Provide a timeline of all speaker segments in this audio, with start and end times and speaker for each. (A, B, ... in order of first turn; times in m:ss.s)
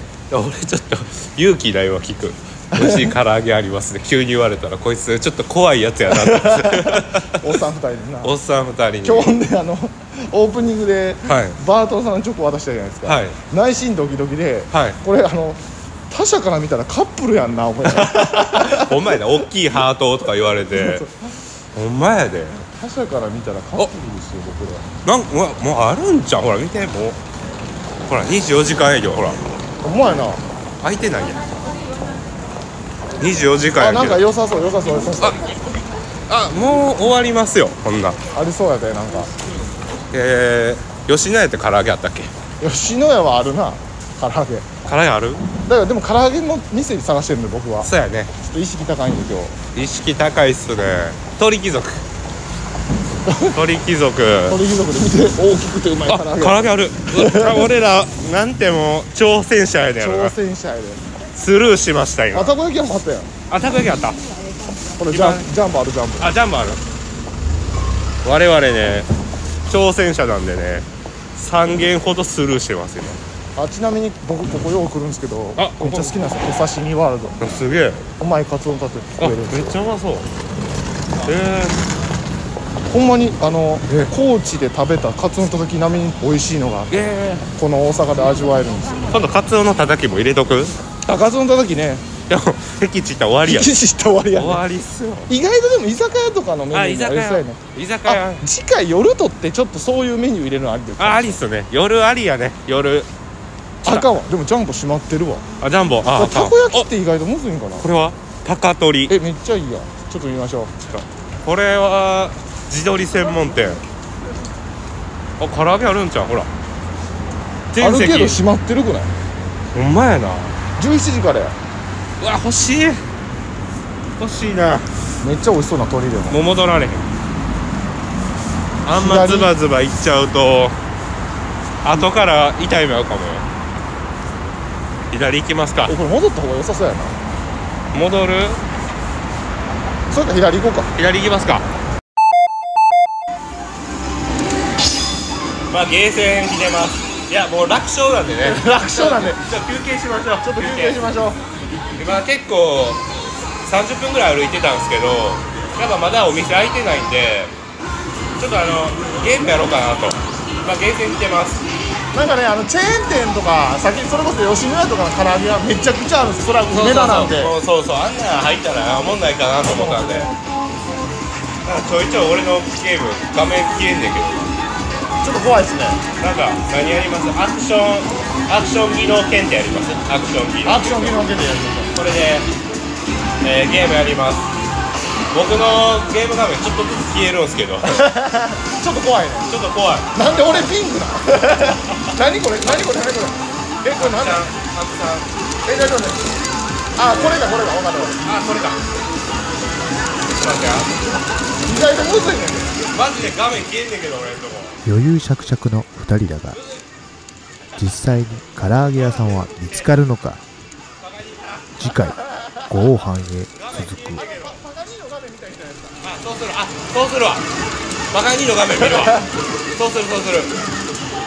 0:00.3-0:07.5 A
0:02.7-0:03.1 B
0:06.1-0:08.3 B
0:08.2-0:09.4 A
0:09.0-0:19.4 B
0:11.2-0:11.6 A
0:13.0-0:13.4 A
0:14.7-0:15.0 A
0:17.8-0:21.1 A
0:20.7-0:21.1 B
0:21.7-0:22.6 A
0:22.6-0:24.9 B
0:25.0-0:27.2 A
0:28.1-0:29.4 A
0:29.8-0:30.4 B
0:30.8-0:31.4 A
0:33.2-0:34.2 A
0:33.8-0:35.4 B
0:36.3-0:38.2 A
0:38.3-0:39.3 B
0:40.1-0:42.3 A
0:42.6-0:44.7 B
0:44.8-0:45.4 A
0:45.6-0:49.6 B
0:47.8-0:48.3 A
0:49.7-0:52.0 A
0:53.2-0:53.6 B
0:53.5-0:54.6 A
0:54.5-0:57.7 B
0:56.1-1:00.3 A
1:00.0-1:01.0 B
1:01.3-1:02.5 A
1:02.3-1:03.3 B
1:03.5-1:04.2 A
1:05.0-1:06.3 B
1:05.1-1:05.4 A
1:06.2-1:06.8 A
1:08.2-1:09.1 A
1:09.7-1:13.2 A
1:13.6-1:17.4 B
1:15.6-1:16.2 A
1:17.4-1:18.1 A
1:18.2-1:19.8 B
1:19.2-1:20.3 A
1:21.2-1:21.8 A
1:22.9-1:29.2 B
1:23.9-1:24.1 A
1:26.9-1:27.5 A
1:29.1-1:30.8 A
1:31.0-1:32.1 B
1:32.3-1:33.7 A
1:33.4-1:34.6 B
1:34.3-1:35.3 A
1:35.3-1:41.4 B
1:36.7-1:38.4 A
1:41.0-1:43.1 A
1:43.8-1:44.1 A
1:43.8-1:45.4 B
1:45.6-1:46.9 A
1:46.1-1:47.9 B
1:47.8-1:49.2 A
1:49.1-1:50.7 B
1:50.8-1:53.8 A
1:55.4-1:56.5 A
1:57.7-1:58.4 A
1:57.8-1:59.1 B
1:59.7-2:00.6 A
2:00.8-2:01.6 B
2:02.2-2:03.0 A
2:04.2-2:04.8 A
2:05.2-2:06.4 B
2:06.3-2:07.1 A
2:08.8-2:10.8 A
2:08.9-2:09.5 B
2:11.8-2:13.4 A
2:15.1-2:15.9 A
2:15.9-2:17.2 B
2:17.9-2:18.6 A
2:20.1-2:20.9 B
2:20.9-2:21.6 A
2:25.7-2:31.0 A
2:28.4-2:29.4 B
2:30.4-2:31.4 B
2:32.0-2:33.0 A
2:33.6-2:37.5 A
2:38.4-2:41.6 A
2:42.1-2:47.6 B
2:46.7-2:50.3 A
2:49.6-2:50.3 B
2:51.6-2:54.5 A
2:55.2-2:56.0 B
2:56.2-3:01.2 A
3:00.6-3:01.9 B
3:01.9-3:02.5 A
3:03.4-3:04.5 A
3:05.3-3:08.0 A
3:07.8-3:09.5 B
3:09.5-3:10.7 A
3:10.1-3:14.4 B
3:13.9-3:15.3 A
3:15.6-3:16.3 B
3:17.0-3:18.2 B
3:18.2-3:18.8 A
3:20.3-3:20.9 A
3:21.6-3:22.7 B
3:22.9-3:24.8 A
3:24.8-3:26.6 C
3:26.5-3:26.8 A
3:27.8-3:30.4 C
3:29.0-3:29.9 A
3:31.0-3:31.9 A
3:31.8-3:34.2 C
3:32.3-3:32.6 B
3:33.5-3:34.6 A
3:34.1-3:36.0 B
3:36.0-3:37.4 A
3:38.1-3:40.5 A
3:38.8-3:39.3 B